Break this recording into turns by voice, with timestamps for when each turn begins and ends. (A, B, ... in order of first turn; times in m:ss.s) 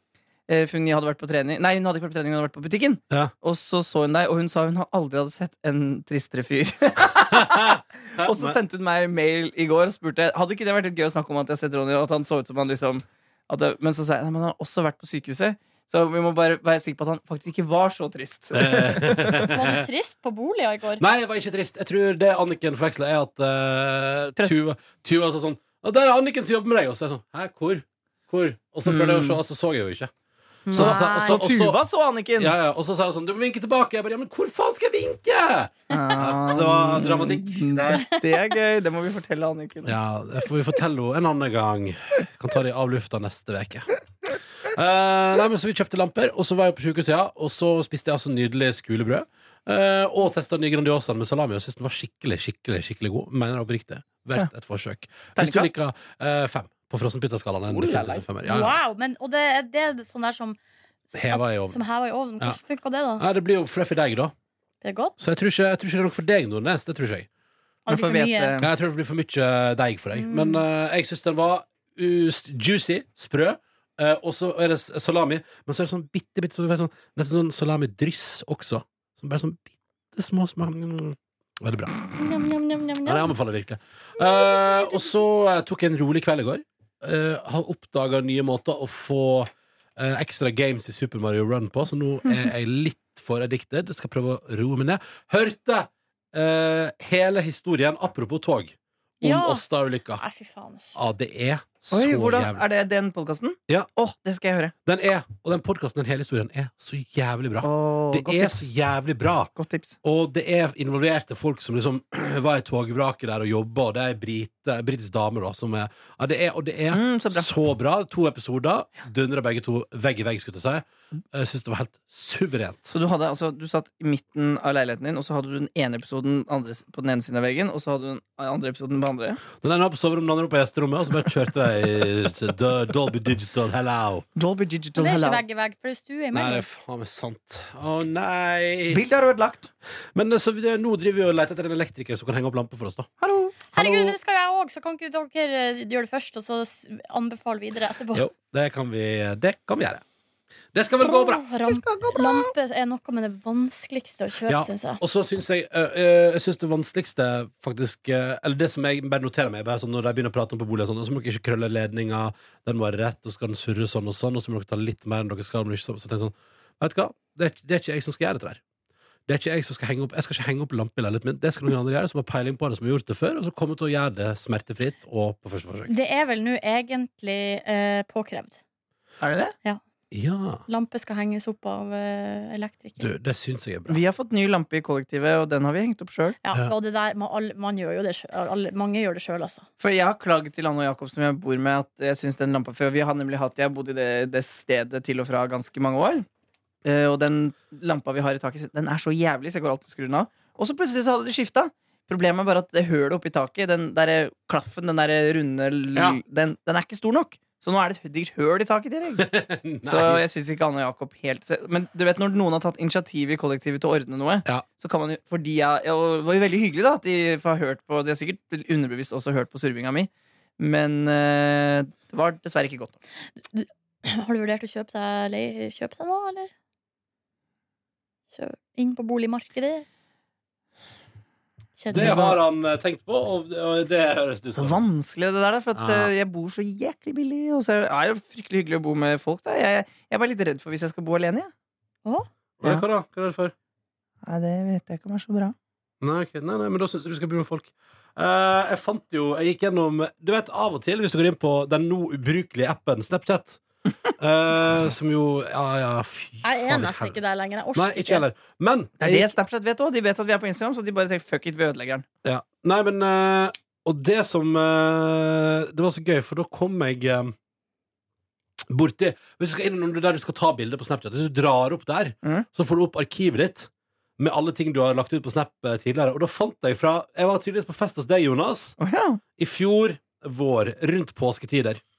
0:00.5-0:19.5 A
0:07.3-0:08.6 B
0:18.5-0:19.8 B
0:19.5-0:21.0 C
0:21.0-0:30.1 B
0:28.8-0:29.4 A
0:30.7-0:31.4 C
0:30.7-0:31.8 B
0:30.7-0:32.5 A
0:32.4-0:38.1 B
0:35.9-0:40.0 A
0:38.0-0:38.4 C
0:39.8-0:43.9 B
0:44.7-0:58.8 B
0:55.4-0:55.7 A
0:57.7-0:58.2 A
0:58.4-1:00.6 C
1:01.1-1:03.2 C
1:01.1-1:01.8 B
1:03.2-1:04.3 B
1:04.8-1:05.2 C
1:05.2-1:07.3 B
1:07.9-1:08.6 C
1:07.9-1:08.7 A
1:08.6-1:22.2 B
1:10.2-1:10.6 C
1:22.2-1:23.3 C
1:23.0-1:40.2 B
1:39.2-1:41.0 C
1:41.0-1:42.6 B
1:41.9-1:44.7 A
1:44.9-1:49.5 B
1:47.6-1:48.7 A
1:49.6-1:50.0 A
1:50.0-2:02.9 B
1:56.9-1:57.5 A
2:02.9-2:09.4 A
2:09.6-2:14.2 B
2:14.4-2:15.4 A
2:15.0-2:16.7 C
2:16.3-2:19.0 B
2:18.9-2:19.7 A
2:20.2-2:23.1 B
2:23.2-2:24.2 A
2:23.7-2:28.3 C
2:28.1-2:30.0 B
2:30.7-2:31.4 B
2:31.0-2:35.0 C
2:31.7-2:32.5 A
2:34.5-2:48.6 B
2:49.3-2:55.9 B
2:55.9-2:58.6 C
2:59.2-2:59.6 A
3:00.1-3:00.6 B
3:00.7-3:03.1 C
3:03.0-3:04.0 B
3:03.9-3:06.4 A
3:06.4-3:09.7 C
3:09.8-3:16.3 A
3:16.8-3:29.3 A
3:26.0-3:26.2 B
3:29.2-3:30.2 B
3:29.8-3:43.0 A
3:43.5-3:46.5 C
3:48.3-3:49.9 C
3:51.8-3:52.3 C
3:51.9-3:52.4 A
3:51.9-3:54.8 B
3:54.6-4:01.5 A
3:55.8-3:56.1 B
4:02.6-4:03.5 B
4:04.3-4:05.6 A
4:06.0-4:13.6 B
4:14.2-4:17.2 B
4:16.4-4:18.2 C
4:17.8-4:19.3 B
4:19.0-4:22.1 A
4:22.2-4:27.4 B
4:28.7-4:38.8 B
4:38.8-4:39.2 A
4:39.4-4:41.8 B